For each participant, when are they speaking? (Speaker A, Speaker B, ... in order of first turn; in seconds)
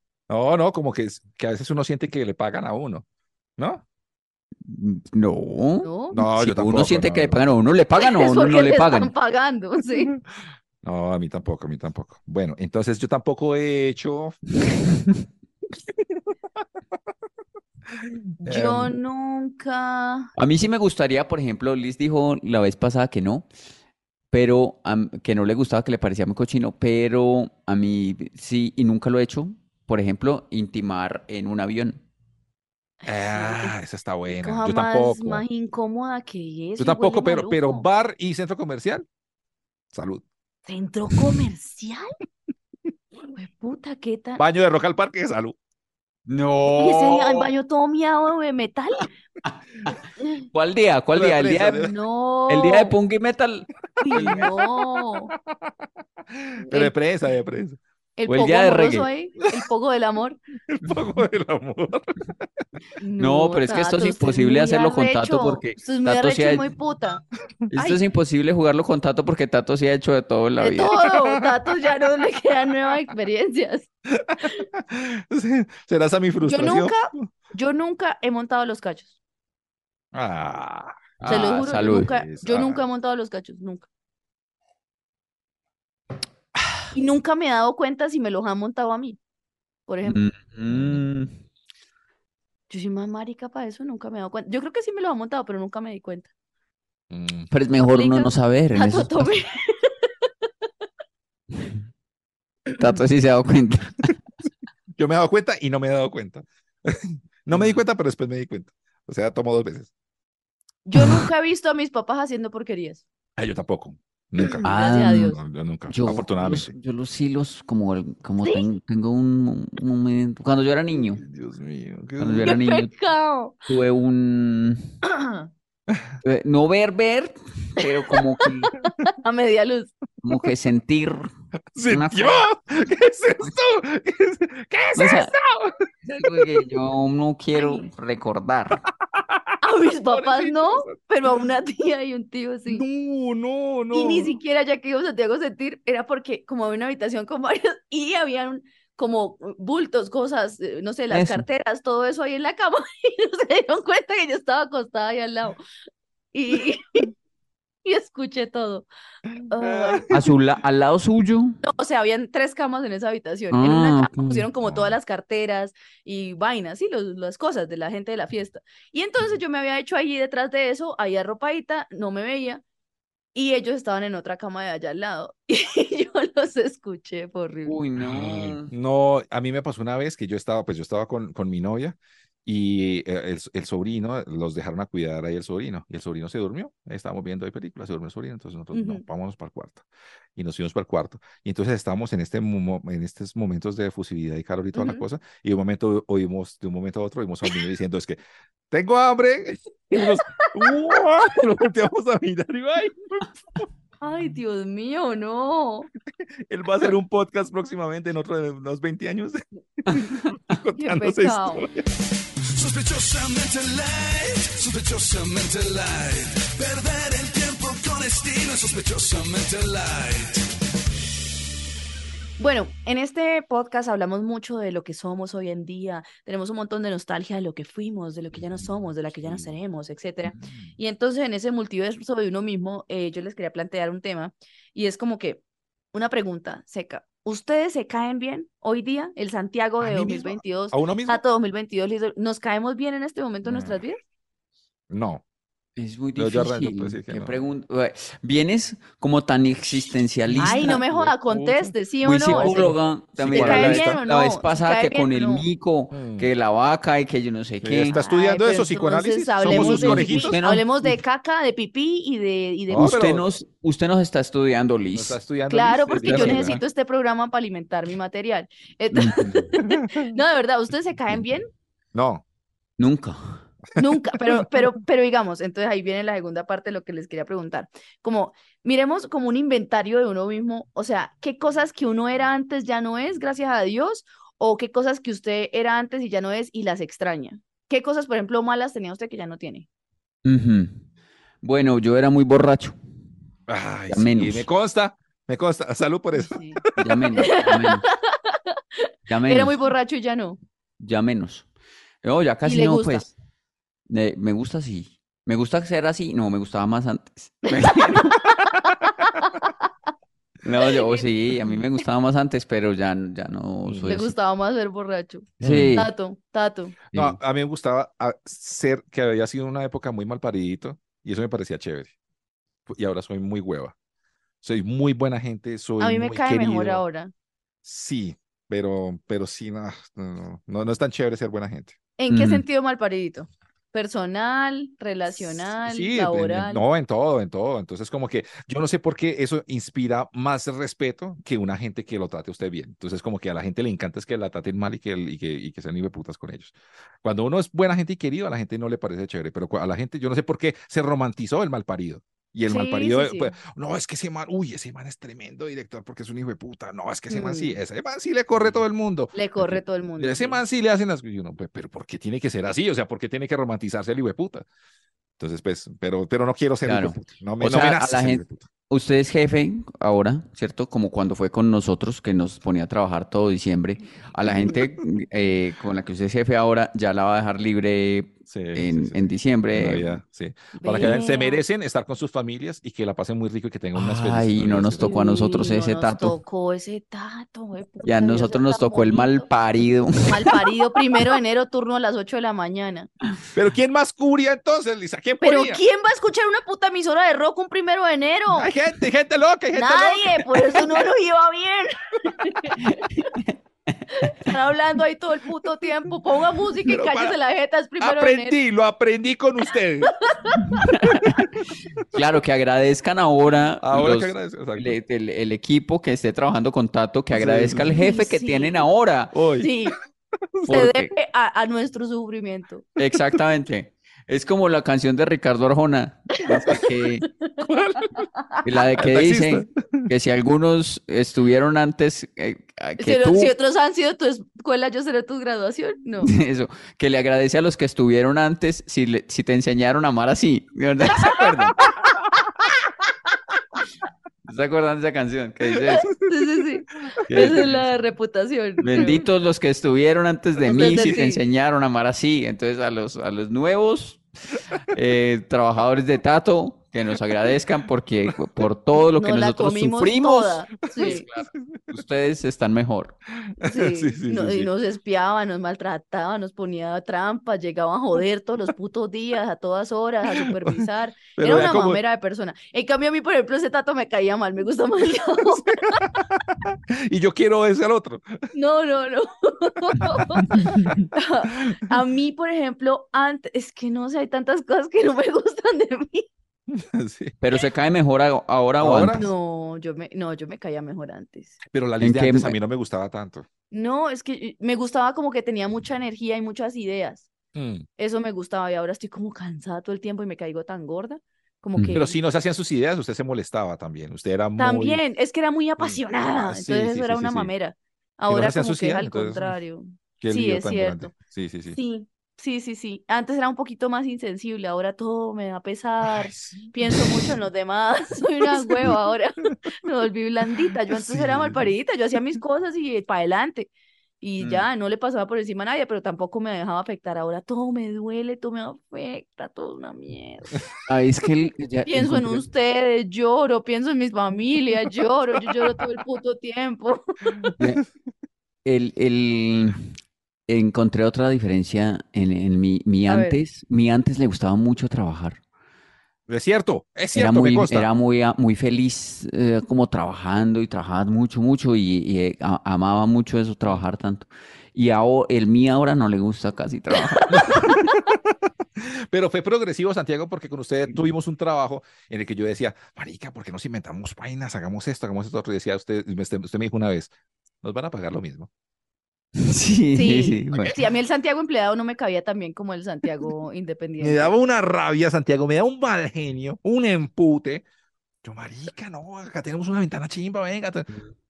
Speaker A: 0.3-3.0, 3.6-3.8, 6.1-7.4, 10.8-14.4, 18.0-18.9, 33.0-35.4, 36.8-39.0, 39.9-40.2, 44.4-45.6, 51.1-51.9, 54.1-54.5, 56.3-57.8, 60.7-62.1, 71.0-71.5, 74.1-77.3, 80.1-81.3, 81.9-82.8, 90.7-91.0, 97.1-97.5, 105.0-109.9, 113.4-116.7, 121.2-122.6, 131.7-136.4, 139.0-141.0, 142.7-144.4, 159.6-160.3, 164.6-164.9, 178.0-189.8, 190.3-198.2, 198.7-203.6, 206.2-211.8, 239.8-241.2, 243.4-243.8, 244.9-245.2, 246.2-247.4, 250.3-251.7, 252.3-254.0, 255.9-256.3, 257.6-260.4, 262.7-263.2, 264.9-266.6, 269.6-270.0, 271.9-272.2, 293.5-297.0, 313.6-314.0, 315.4-315.8, 316.9-321.9, 322.7-323.7, 324.4-326.8, 327.6-331.8, 335.6-364.4, 365.2-368.5, 374.2-374.7, 378.3-384.9, 393.3-395.6, 398.3-400.8, 406.6-407.2, 407.8-410.0, 413.6-414.8, 417.1-417.8, 419.1-419.5, 427.4-428.0, 428.8-429.9, 441.2-442.1, 447.2-447.6, 450.4-451.1, 460.7-461.7, 463.3-464.5, 470.1-470.6, 471.1-471.8, 475.8-478.2, 486.5-487.1, 488.6-489.1, 491.5-493.2, 497.3-497.6, 501.7-504.8, 505.6-507.3, 508.1-509.3, 510.0-511.6, 515.8-516.9, 518.4-518.8, 520.7-521.5, 537.1-537.4, 546.1-547.7, 557.1-566.9, 567.4-568.3, 573.8-577.4, 578.0-580.7
Speaker B: 4.6-9.1, 20.4-23.4, 24.3-32.0, 46.3-47.5, 50.5-51.9, 52.5-54.5, 58.3-59.1, 63.2-66.7, 67.7-70.9, 81.2-82.1, 90.0-91.3, 97.5-99.3, 102.8-104.1, 107.5-107.8, 114.6-115.3, 115.9-121.2, 122.2-122.9, 123.7-124.8, 126.2-128.7, 130.2-131.3, 131.9-132.5, 134.9-135.3, 136.1-138.8, 151.1-151.4, 160.1-161.6, 163.5-164.5, 177.7-178.7, 245.8-250.8, 252.0-258.0, 259.4-260.9, 262.7-265.2, 266.0-266.6, 268.9-269.4, 272.8-273.4, 290.2-290.8, 291.4-292.8, 293.9-294.5, 296.8-297.9, 299.1-299.6, 300.8-301.4, 302.0-303.1, 303.9-308.2, 310.4-314.1, 315.4-315.9, 316.9-317.2, 332.1-332.4, 366.6-380.0, 383.7-386.1, 387.8-390.5, 402.6-403.3, 410.5-411.2, 411.9-419.1, 420.5-420.9, 422.8-427.1, 428.4-433.3, 436.0-441.5, 444.2-445.9, 447.1-447.6, 448.6-454.0, 454.7-462.9, 487.2-489.1, 491.8-492.4, 501.6-501.8, 524.2-524.5, 530.6-532.2, 538.4-539.6, 540.3-545.2, 546.9-557.6, 569.1-570.5
Speaker C: 5.8-6.2, 8.0-10.1, 18.4-20.3, 33.0-33.7, 34.3-37.9, 40.7-42.1, 43.3-44.4, 46.7-49.1, 50.2-50.4, 51.8-52.9, 54.0-55.3, 56.6-56.9, 58.2-60.4, 63.0-67.2, 67.7-68.0, 70.6-73.9, 76.4-79.1, 81.2-83.9, 86.9-89.2, 89.9-90.2, 92.7-96.3, 97.9-100.1, 110.8-113.0, 114.5-115.4, 122.4-123.6, 125.0-125.5, 127.8-129.9, 137.5-137.8, 139.6-142.8, 143.9-155.6, 156.3-157.1, 157.8-158.9, 159.5-160.1, 161.6-172.6, 173.3-177.8, 188.7-189.0, 194.7-195.0, 199.9-200.7, 204.0-205.9, 210.7-211.7, 222.4-235.4, 235.9-244.0, 250.4-252.7, 253.3-255.4, 257.9-263.0, 265.5-271.5, 273.8-289.6, 296.1-296.6, 297.1-300.4, 302.4-303.1, 307.5-309.5, 313.9-316.7, 325.8-327.1, 332.0-336.6, 352.5-353.3, 357.1-357.6, 359.1-360.4, 380.6-381.4, 384.8-389.3, 390.0-392.9, 395.2-398.5, 399.5-402.6, 403.9-408.4, 410.0-410.4, 417.7-418.7, 419.4-419.8, 420.4-422.7, 427.2-428.6, 432.8-436.1, 445.6-449.1, 450.4-451.2, 459.0-461.1, 463.4-476.0, 478.3-486.1, 488.9-491.4, 493.5-497.1, 497.8-502.0, 504.4-510.9, 511.5-530.4, 531.7-536.8, 542.9-543.2, 556.8-557.5, 569.7-574.1
Speaker D: 212.5-220.5